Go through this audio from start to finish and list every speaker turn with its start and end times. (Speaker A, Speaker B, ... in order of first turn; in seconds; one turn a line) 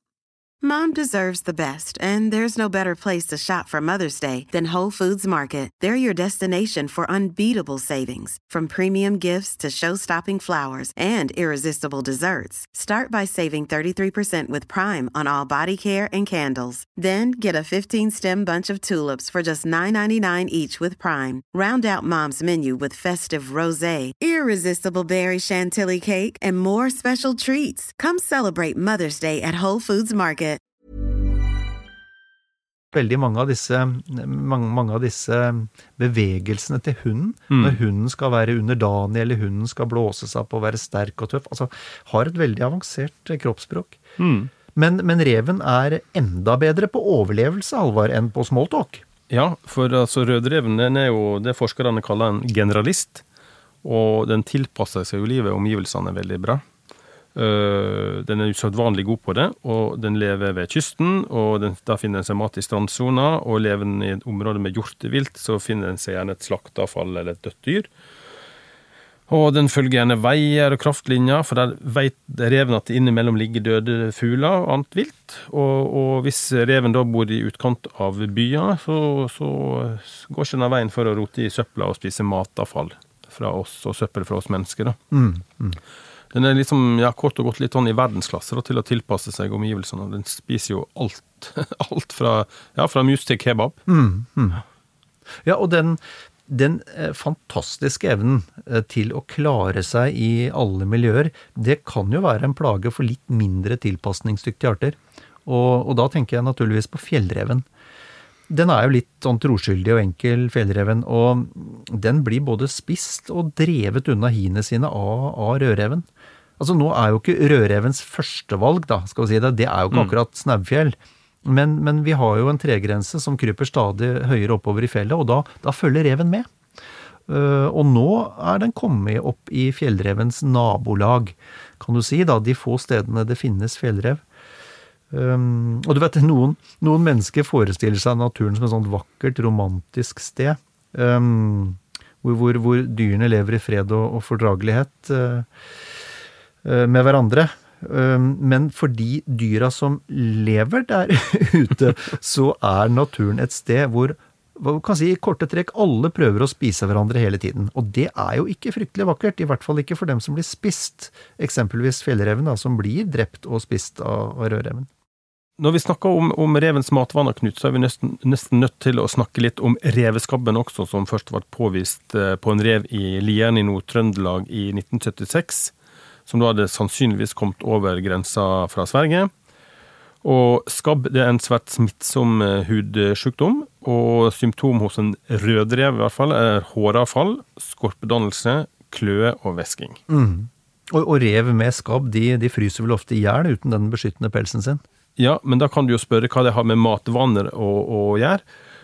Speaker A: 0.6-30.6
Speaker B: 32.9-44.0
Speaker C: 37.5-37.8
Speaker C: 44.2-44.5
Speaker B: 44.7-49.0
Speaker C: 49.3-53.2
Speaker C: 53.8-56.6
Speaker C: 57.3-67.9
Speaker C: 69.3-85.0
Speaker B: 85.1-85.8
Speaker C: 86.3-93.8
Speaker B: 93.9-94.6
Speaker B: 95.4-107.7
Speaker B: 108.5-116.0
Speaker B: 116.6-126.5
Speaker B: 127.3-134.2
Speaker B: 135.1-145.5
Speaker B: 146.6-164.9
Speaker C: 165.6-175.7
Speaker C: 176.3-179.3
Speaker C: 180.2-190.0
Speaker B: 190.1-194.8
Speaker C: 195.2-198.4